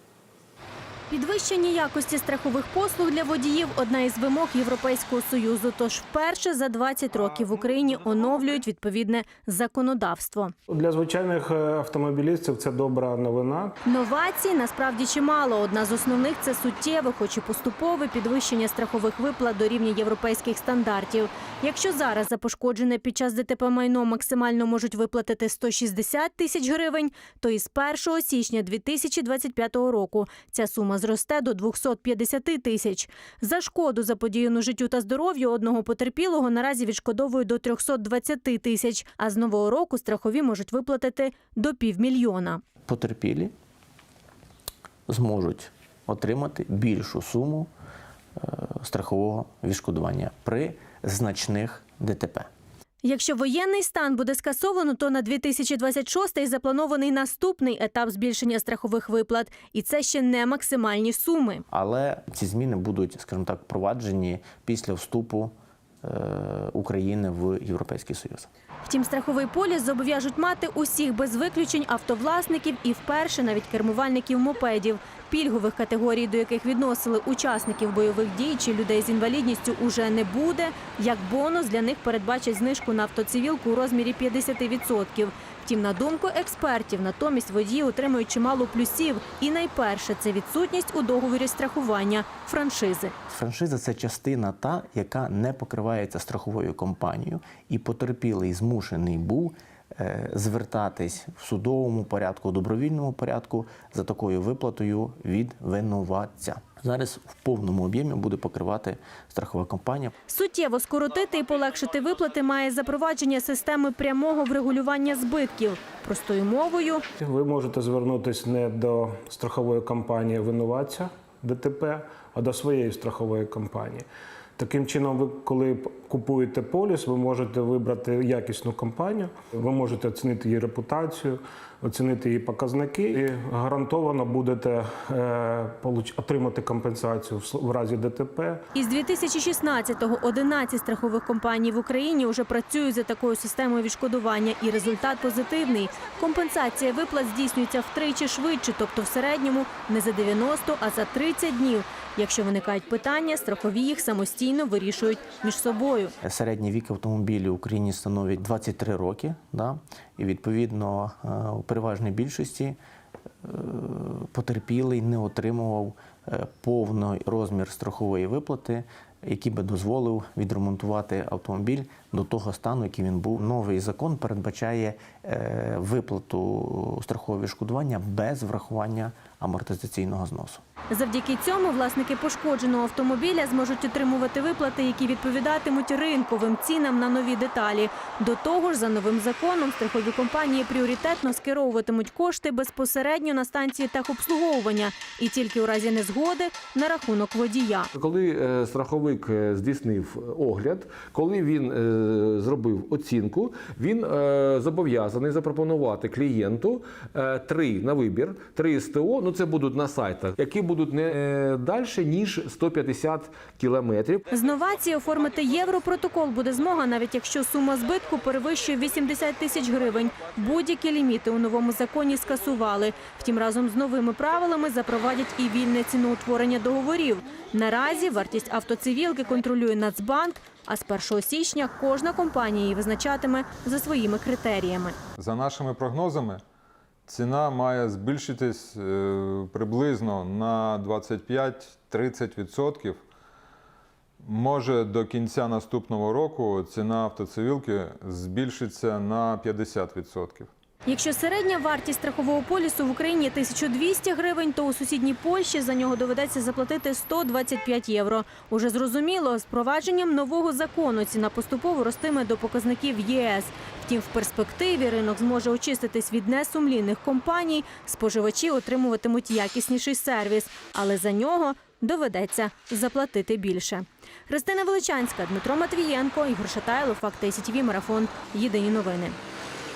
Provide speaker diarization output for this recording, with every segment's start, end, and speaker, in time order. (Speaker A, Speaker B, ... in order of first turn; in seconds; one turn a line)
Speaker A: 1.1-10.5
Speaker B: 10.7-13.8
Speaker A: 13.8-42.6
Speaker C: 42.9-43.5
Speaker C: 45.1-47.7
Speaker C: 48.4-52.5
Speaker A: 53.0-61.6
Speaker C: 61.7-68.5
Speaker A: 68.8-93.1
Speaker C: 93.3-110.1
Speaker A: 110.3-117.0
Speaker B: 117.2-138.6
Speaker A: 138.7-156.1
Speaker C: 156.2-162.8
Speaker C: 163.4-180.6
Speaker A: 180.9-197.9
Speaker D: 197.9-214.3
Speaker A: 214.3-234.9
Speaker E: 235.2-236.4
Speaker E: 237.1-243.0
Speaker E: 244.2-250.5
Speaker A: 250.8-279.2